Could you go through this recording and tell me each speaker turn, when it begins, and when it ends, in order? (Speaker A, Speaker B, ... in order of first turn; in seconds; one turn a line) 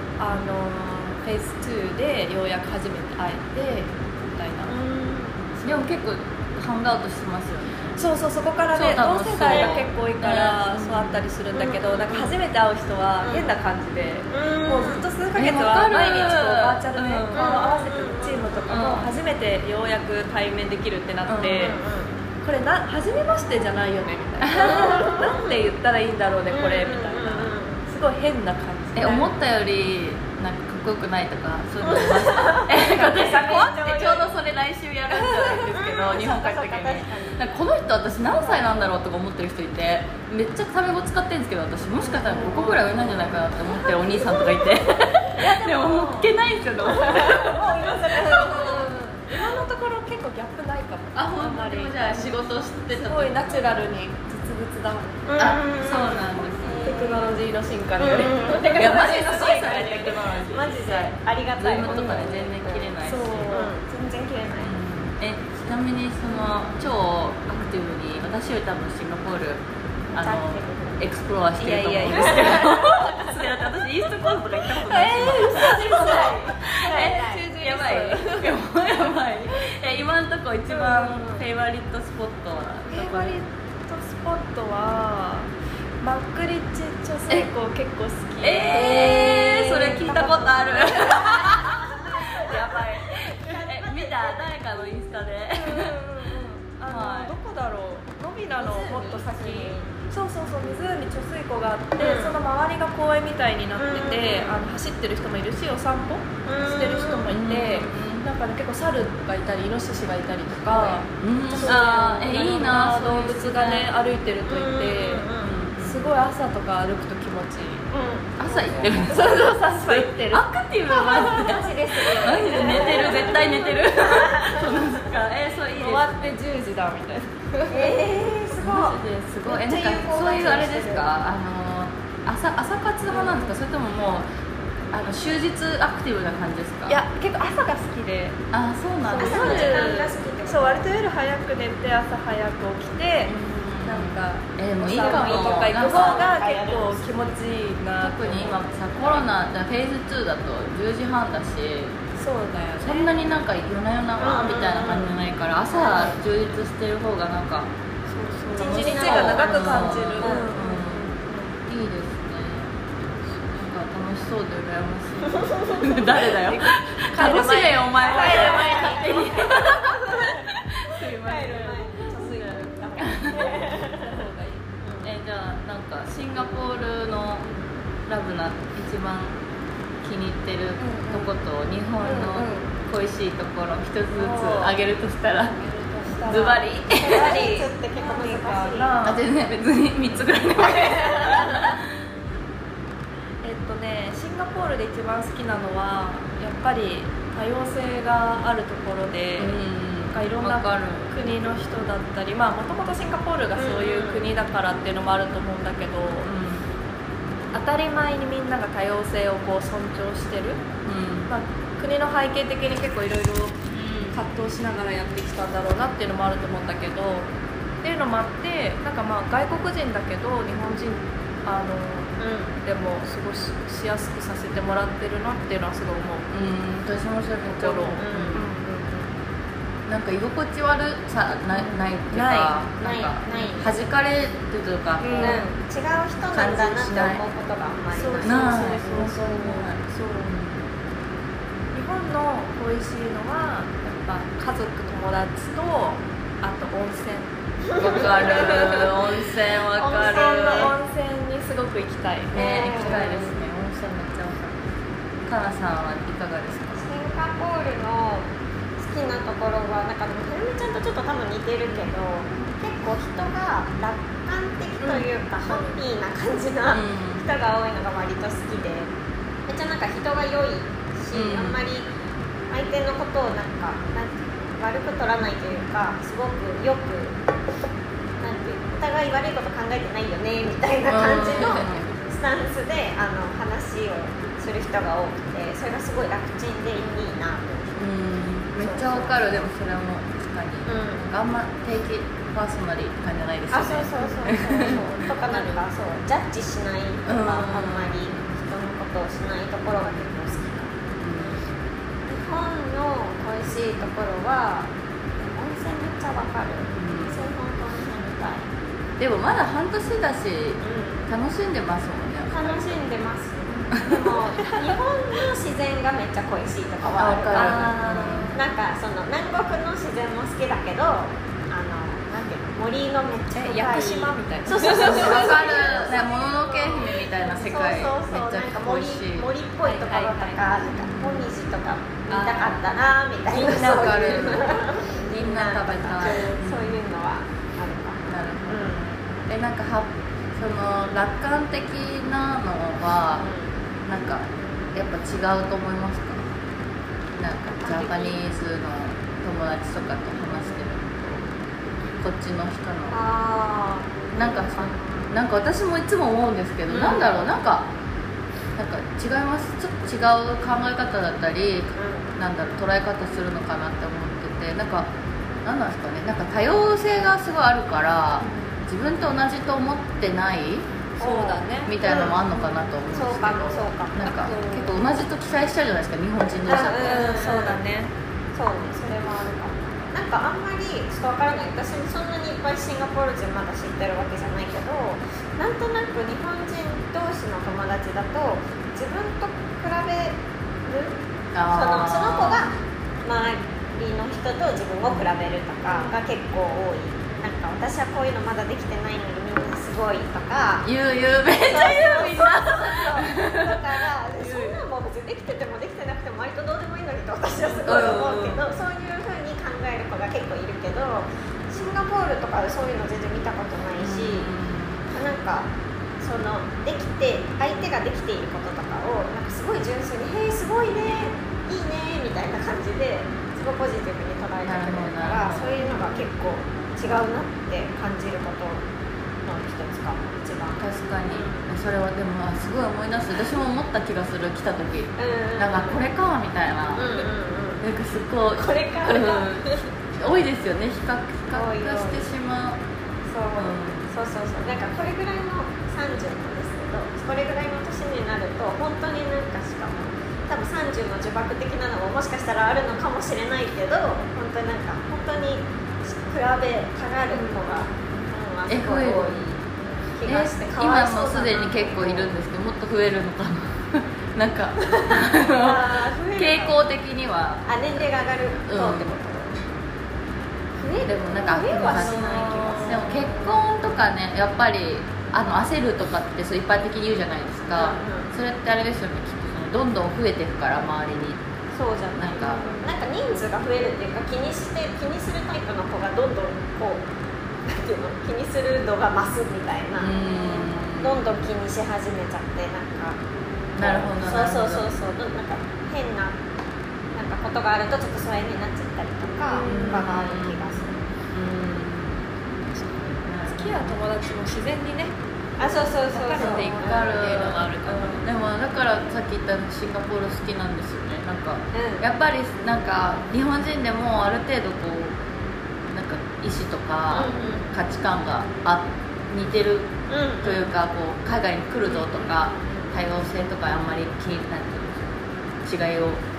Speaker A: 0.2-4.8
Speaker B: 4.7-5.4
Speaker C: 5.6-8.0
Speaker A: 8.0-21.8
Speaker C: 8.7-11.3
Speaker B: 9.5-9.7
Speaker B: 11.5-12.3
Speaker B: 13.2-13.5
Speaker B: 14.3-15.0
Speaker C: 15.3-17.5
Speaker B: 17.3-18.9
Speaker C: 18.7-19.1
Speaker C: 21.3-21.8
Speaker B: 21.5-22.2
Speaker A: 22.4-29.3
Speaker C: 24.4-24.9
Speaker B: 24.6-25.6
Speaker B: 26.5-27.8
Speaker C: 28.9-47.7
Speaker B: 31.8-34.3
Speaker A: 32.9-33.9
Speaker A: 35.2-35.6
Speaker B: 35.6-37.4
Speaker A: 42.0-43.3
Speaker A: 45.4-46.3
Speaker B: 46.8-49.0
Speaker A: 48.1-60.0
Speaker C: 51.1-53.8
Speaker B: 55.2-57.4
Speaker C: 55.4-56.8
Speaker B: 58.0-62.9
Speaker C: 58.7-63.6
Speaker A: 63.0-63.7
Speaker B: 63.5-64.7
Speaker C: 64.6-69.6
Speaker A: 66.3-66.7
Speaker B: 70.1-71.0
Speaker C: 70.1-83.4
Speaker A: 71.6-72.8
Speaker B: 72.1-73.3
Speaker A: 74.8-78.5
Speaker B: 75.4-77.5
Speaker A: 80.7-81.4
Speaker A: 82.9-85.5
Speaker A: 86.0-91.2
Speaker C: 88.4-91.8
Speaker B: 88.7-95.2
Speaker A: 91.8-92.4
Speaker C: 92.3-96.0
Speaker A: 95.5-117.9
Speaker C: 96.9-97.3
Speaker B: 98.6-100.0
Speaker B: 102.0-102.4
Speaker B: 103.8-104.6
Speaker B: 106.4-107.3
Speaker C: 107.3-108.2
Speaker C: 110.7-113.9
Speaker B: 114.5-115.5
Speaker C: 115.4-116.1
Speaker B: 117.9-119.4
Speaker C: 118.4-126.4
Speaker A: 119.0-120.4
Speaker B: 120.9-125.0
Speaker A: 122.2-123.6
Speaker A: 125.8-128.0
Speaker B: 127.7-131.1
Speaker C: 128.6-134.3
Speaker A: 133.1-133.5
Speaker C: 134.9-137.0
Speaker A: 136.9-138.4
Speaker C: 138.5-140.1
Speaker A: 139.0-143.3
Speaker B: 139.1-140.9
Speaker C: 143.2-146.2
Speaker A: 143.8-149.3
Speaker B: 144.8-147.3
Speaker C: 148.0-152.0
Speaker A: 152.2-153.2
Speaker C: 152.8-157.7
Speaker B: 154.2-155.2
Speaker B: 155.7-156.2
Speaker A: 155.9-156.1
Speaker A: 158.1-161.5
Speaker B: 158.5-160.6
Speaker C: 158.6-161.2
Speaker C: 161.7-172.3
Speaker B: 165.4-166.2
Speaker A: 166.4-169.8
Speaker B: 167.9-170.5
Speaker B: 171.2-174.2
Speaker A: 172.1-172.7
Speaker C: 173.0-173.6
Speaker A: 173.4-174.6
Speaker B: 174.8-175.1
Speaker C: 175.0-177.5
Speaker C: 178.1-179.3
Speaker C: 180.0-185.6
Speaker A: 180.8-181.3
Speaker A: 182.0-182.7
Speaker A: 184.1-184.7
Speaker A: 185.6-189.2
Speaker C: 186.2-187.4
Speaker B: 187.0-188.9
Speaker C: 189.0-191.8
Speaker B: 190.6-191.7
Speaker A: 193.4-199.6
Speaker C: 199.4-201.1
Speaker A: 200.1-206.3
Speaker B: 203.6-204.2
Speaker C: 206.2-206.7
Speaker A: 207.5-210.7
Speaker C: 210.8-211.3
Speaker A: 211.3-213.6
Speaker C: 213.7-214.2
Speaker A: 214.1-217.3
Speaker A: 217.8-226.3
Speaker B: 222.2-222.6
Speaker C: 226.3-228.5
Speaker A: 227.4-229.1
Speaker B: 228.0-228.5
Speaker C: 229.9-235.5
Speaker A: 231.5-232.5
Speaker B: 232.8-233.9
Speaker A: 235.0-235.6
Speaker B: 235.2-238.8
Speaker C: 236.3-237.2
Speaker A: 237.9-240.3
Speaker C: 238.2-240.7
Speaker A: 241.7-248.9
Speaker B: 247.7-248.8
Speaker C: 247.8-250.7
Speaker B: 249.8-250.7
Speaker A: 249.8-253.3
Speaker C: 252.3-254.6
Speaker B: 252.3-253.1
Speaker C: 255.2-256.9
Speaker B: 256.8-268.9
Speaker C: 266.7-267.2
Speaker B: 269.5-271.9
Speaker C: 271.1-271.6
Speaker B: 272.5-277.2
Speaker B: 278.2-287.8
Speaker C: 280.9-281.9
Speaker C: 287.8-295.6
Speaker B: 288.6-289.3
Speaker B: 290.6-291.1
Speaker B: 293.5-300.7
Speaker A: 294.6-294.9
Speaker C: 297.1-298.3
Speaker C: 301.0-301.4
Speaker B: 302.1-308.5
Speaker C: 306.7-307.2
Speaker C: 309.0-312.8
Speaker B: 310.6-311.1
Speaker B: 312.3-317.8
Speaker C: 316.9-318.4
Speaker A: 317.3-318.4
Speaker B: 318.3-338.8
Speaker A: 323.3-325.7
Speaker C: 324.6-329.3
Speaker A: 329.6-330.4
Speaker C: 330.6-331.3
Speaker C: 332.1-332.6
Speaker C: 333.3-336.8
Speaker C: 338.1-343.3
Speaker B: 343.2-343.6
Speaker C: 343.8-346.3
Speaker C: 347.2-351.3
Speaker B: 347.6-348.2
Speaker C: 352.0-353.0
Speaker B: 352.9-355.1
Speaker C: 354.1-357.7
Speaker B: 356.7-357.1
Speaker C: 358.5-364.9
Speaker B: 361.8-362.1
Speaker C: 365.4-370.8
Speaker B: 371.0-372.2
Speaker A: 371.0-371.7
Speaker C: 371.6-377.1
Speaker A: 372.3-372.6
Speaker B: 372.9-374.1
Speaker A: 374.0-374.9
Speaker B: 376.4-377.6
Speaker A: 376.8-377.9
Speaker B: 378.3-391.0
Speaker C: 391.3-392.5
Speaker B: 391.5-400.7
Speaker A: 395.7-396.0
Speaker C: 400.6-403.6
Speaker B: 401.4-414.3
Speaker C: 404.2-404.6
Speaker C: 407.6-408.4
Speaker C: 413.8-414.9
Speaker B: 414.9-428.6
Speaker C: 424.4-425.7
Speaker A: 425.6-426.1
Speaker B: 429.2-431.4
Speaker C: 430.6-437.0
Speaker B: 435.0-435.8
Speaker B: 436.7-437.6
Speaker C: 437.6-442.6
Speaker B: 438.4-439.3
Speaker B: 441.3-442.1
Speaker B: 443.1-462.1
Speaker C: 443.4-443.9
Speaker C: 444.4-444.8
Speaker A: 457.1-457.4
Speaker C: 458.5-459.2
Speaker C: 460.1-467.9
Speaker B: 464.6-466.6
Speaker B: 467.4-469.4
Speaker C: 468.4-468.9
Speaker B: 470.6-473.4
Speaker C: 470.8-481.2
Speaker B: 477.5-478.1
Speaker B: 481.5-486.9
Speaker C: 481.9-482.4
Speaker A: 482.2-482.6
Speaker B: 487.4-489.9
Speaker C: 489.8-491.0
Speaker A: 489.9-490.6
Speaker B: 490.8-493.0
Speaker B: 493.5-496.2
Speaker C: 493.6-494.6
Speaker B: 496.9-500.8
Speaker A: 499.2-499.9
Speaker C: 499.4-502.0
Speaker A: 502.5-508.1
Speaker C: 503.0-503.8
Speaker B: 505.4-506.9
Speaker C: 506.1-515.0
Speaker B: 511.5-511.8
Speaker C: 515.7-526.0
Speaker B: 516.9-517.5
Speaker A: 517.0-517.4
Speaker B: 519.9-520.5
Speaker B: 521.7-522.7